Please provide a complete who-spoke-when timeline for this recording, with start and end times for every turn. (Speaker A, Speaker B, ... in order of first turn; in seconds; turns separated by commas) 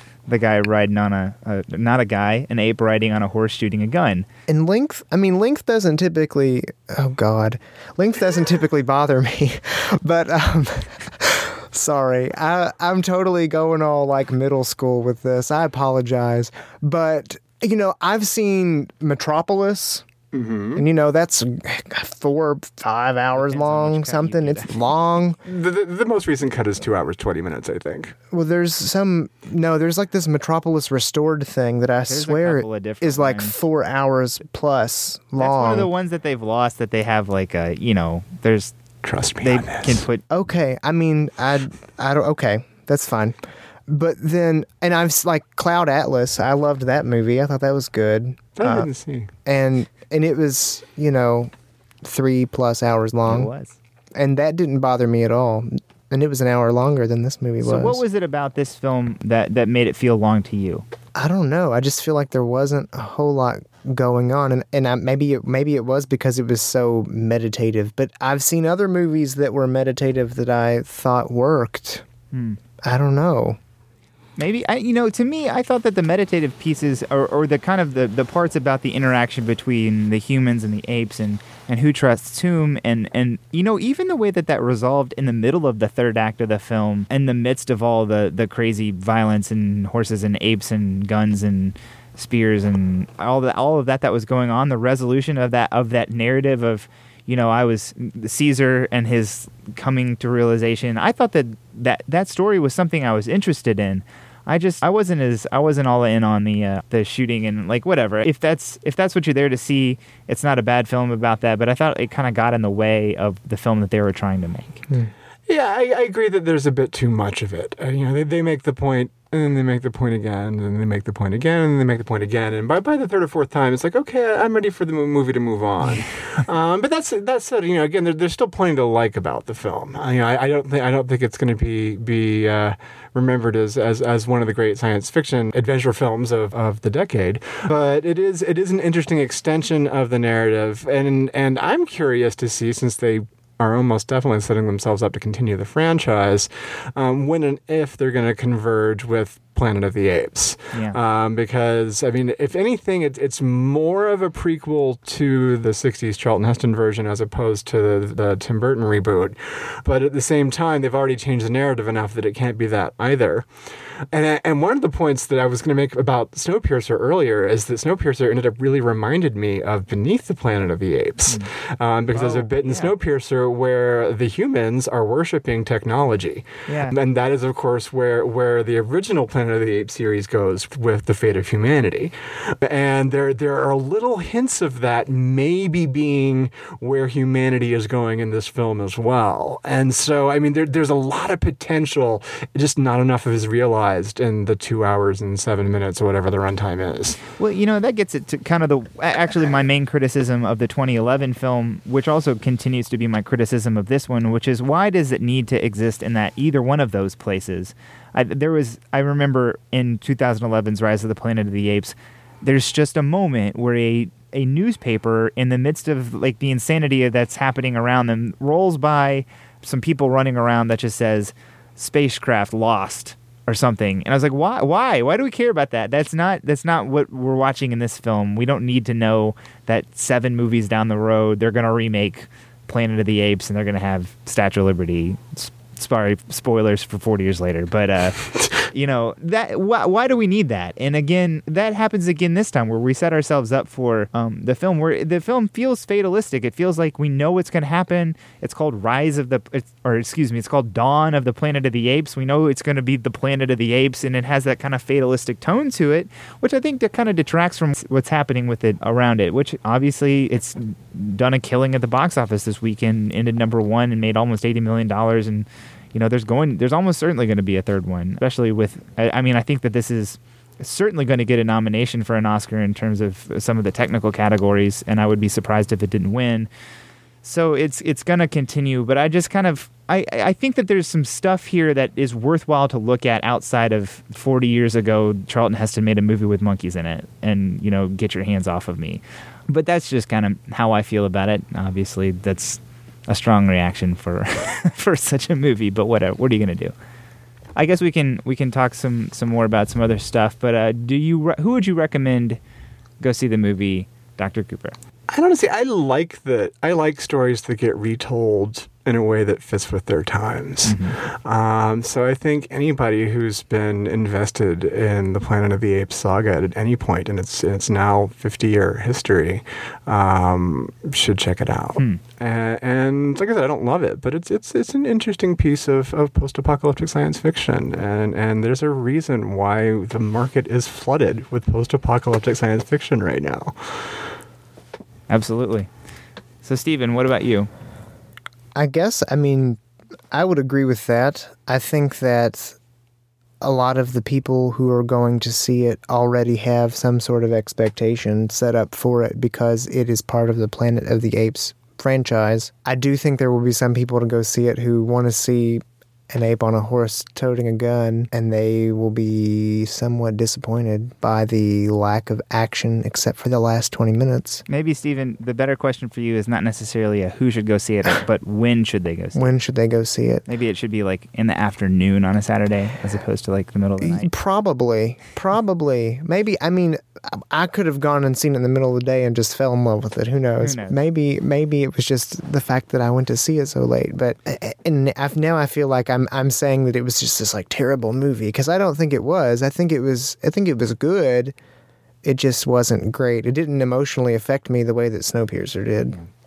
Speaker A: 0.3-4.3, Speaker B: 4.5-20.1, Speaker C: 20.3-20.8, Speaker B: 20.8-25.4, Speaker A: 23.3-24.9, Speaker C: 25.4-28.1, Speaker B: 28.3-35.9, Speaker A: 32.0-33.5, Speaker A: 35.4-38.7, Speaker C: 39.0-40.0, Speaker A: 39.4-40.2, Speaker B: 40.3-48.9, Speaker C: 48.6-49.3, Speaker B: 49.5-51.5, Speaker B: 52.0-53.5, Speaker A: 53.3-53.8, Speaker B: 54.1-58.0, Speaker A: 57.6-60.9, Speaker B: 61.1-72.0, Speaker A: 72.3-72.6, Speaker B: 72.8-73.6, Speaker A: 74.4-114.8, Speaker C: 115.5-163.5, Speaker A: 150.7-151.0, Speaker C: 164.1-197.2, Speaker A: 172.1-172.9, Speaker A: 176.7-177.0, Speaker A: 197.4-276.5, Speaker A: 277.2-296.7, Speaker A: 297.6-302.4, Speaker A: 303.0-304.8, Speaker C: 305.1-333.9, Speaker A: 310.6-311.0, Speaker A: 335.1-335.7, Speaker A: 336.4-337.5, Speaker B: 338.6-339.6, Speaker B: 340.1-342.6, Speaker B: 343.4-364.4, Speaker A: 364.5-369.3, Speaker B: 369.1-370.3, Speaker A: 370.3-374.1, Speaker B: 373.8-391.4, Speaker A: 380.4-380.8, Speaker B: 392.0-396.0